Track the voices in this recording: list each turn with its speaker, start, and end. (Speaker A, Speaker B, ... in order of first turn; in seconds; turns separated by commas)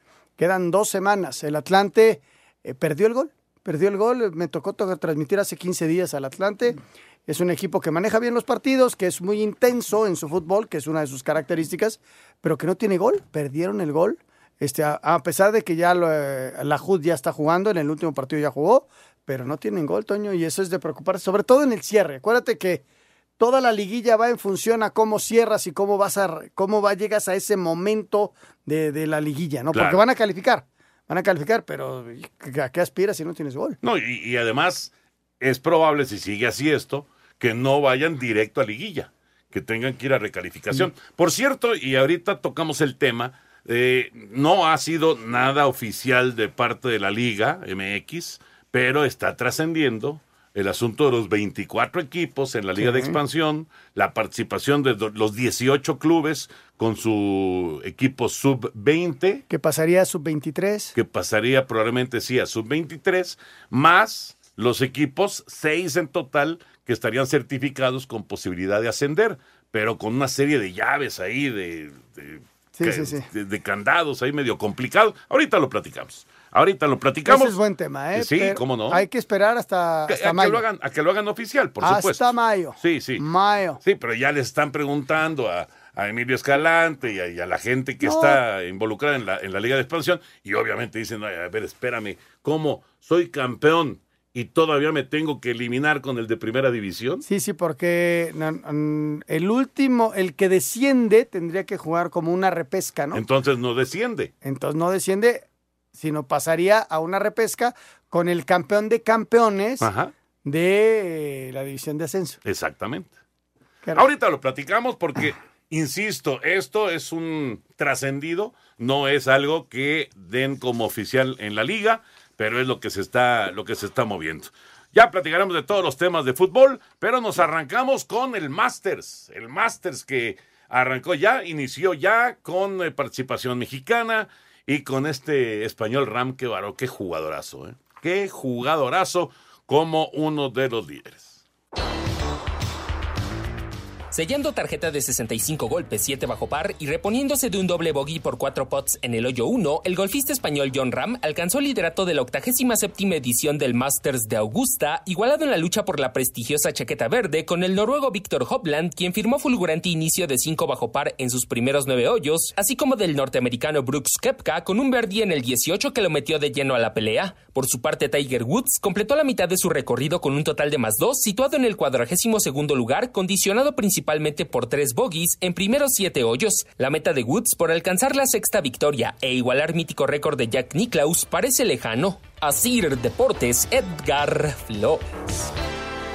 Speaker A: 0.4-22.8, Speaker A: 23.4-33.8, Speaker B: 29.7-30.0, Speaker B: 33.8-59.4, Speaker A: 52.8-53.2, Speaker A: 59.5-61.0, Speaker B: 61.0-77.6, Speaker A: 72.8-73.3, Speaker A: 77.3-80.6, Speaker B: 78.1-79.0, Speaker B: 80.1-83.2, Speaker A: 81.8-83.8, Speaker B: 83.8-97.2, Speaker A: 88.0-88.4, Speaker A: 97.2-103.2, Speaker B: 103.1-104.3, Speaker A: 104.4-109.9, Speaker B: 109.8-110.1, Speaker A: 110.4-112.4, Speaker B: 112.5-113.1, Speaker B: 114.0-141.4, Speaker C: 144.1-185.1